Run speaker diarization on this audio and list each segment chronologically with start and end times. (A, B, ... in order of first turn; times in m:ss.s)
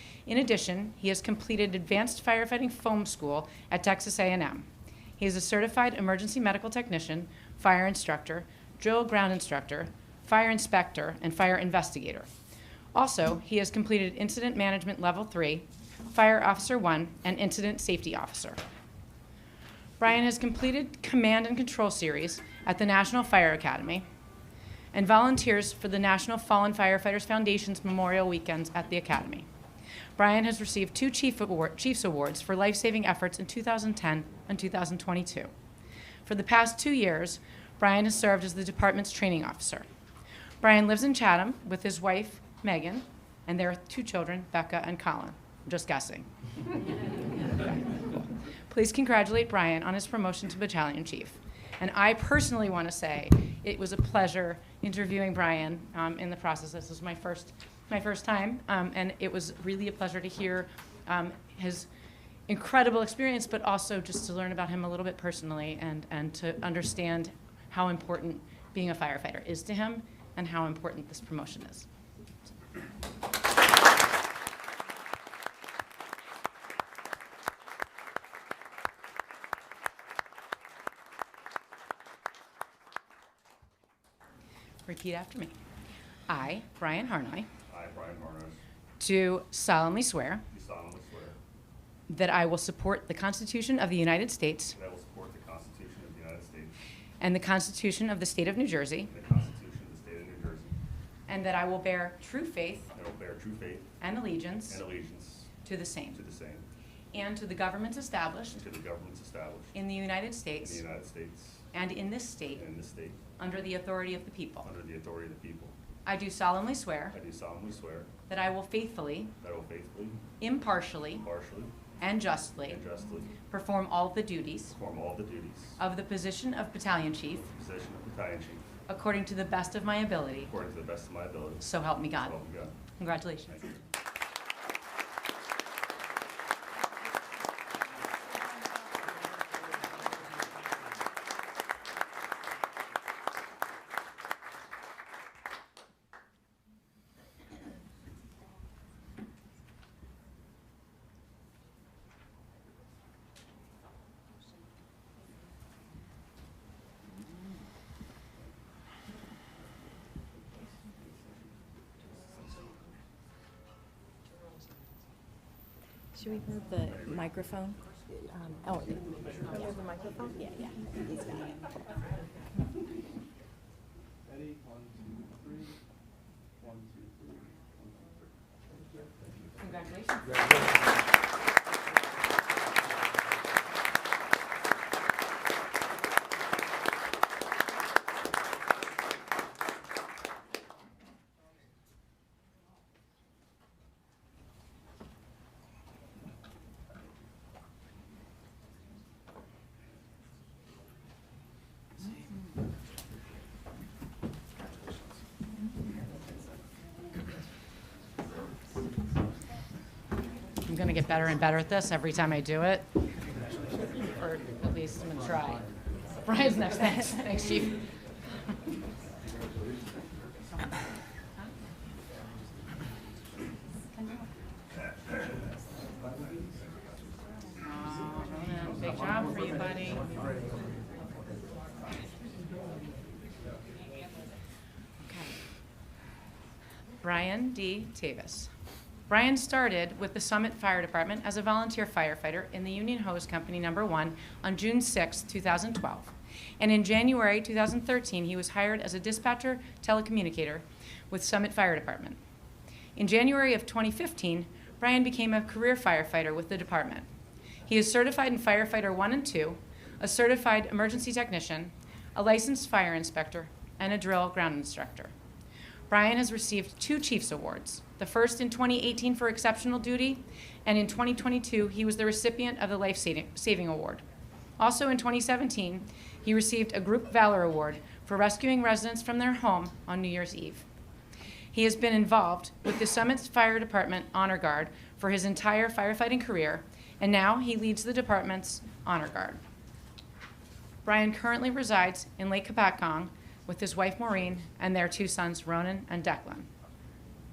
0:00.3-0:04.7 A
0:05.2-0:12.3 A
0:12.9-0:18.6 A
0:20.0-0:24.1 A
0:24.9-0:29.5 A
0:30.2-0:35.5 A
0:36.3-0:39.9 A
0:40.6-0:46.3 A
0:47.4-0:48.2 A
0:48.7-1:01.9 A
1:02.5-1:11.9 A
1:24.9-1:25.6 A
1:26.3-1:27.5 A
1:27.7-1:28.6 B
1:29.0-1:30.4 A
1:30.5-1:31.4 B
1:32.1-1:34.8 A
1:34.8-1:36.7 B
1:37.2-1:39.1 A
1:39.1-1:40.7 B
1:41.3-1:42.9 A
1:42.9-1:44.0 B
1:44.0-1:44.8 A
1:44.7-1:45.5 B
1:45.6-1:46.2 A
1:46.1-1:46.6 B
1:47.1-1:48.6 A
1:48.5-1:49.8 B
1:49.7-1:50.8 A
1:50.6-1:51.7 B
1:51.7-1:52.6 A
1:52.6-1:53.2 B
1:53.4-1:54.7 A
1:54.6-1:55.7 B
1:56.1-1:57.2 A
1:57.1-1:58.1 B
1:58.3-1:59.3 A
1:59.4-2:00.2 B
2:00.4-2:01.2 A
2:01.2-2:01.7 B
2:02.0-2:02.8 A
2:02.7-2:03.3 B
2:03.5-2:04.8 A
2:04.7-2:05.8 B
2:05.8-2:07.5 A
2:07.5-2:08.7 B
2:08.9-2:10.5 A
2:10.5-2:12.8 B
2:11.6-2:12.4 A
2:13.0-2:13.7 A
2:46.2-2:50.8 C
2:46.9-2:47.3 B
2:49.2-2:49.6 B
2:54.3-2:55.7 D
2:56.6-2:58.1 D
2:59.6-3:00.4 A
3:30.7-3:32.9 A
3:34.0-3:35.7 A
3:36.2-3:37.8 A
3:43.9-3:44.2 A
3:47.6-3:50.1 A
3:55.0-3:55.4 A
3:57.0-3:58.5 A
3:59.1-4:12.2 A
4:13.0-4:17.1 A
4:17.7-4:25.1 A
4:25.9-4:34.0 A
4:34.6-4:40.7 A
4:41.5-4:49.4 A
4:50.8-4:56.5 A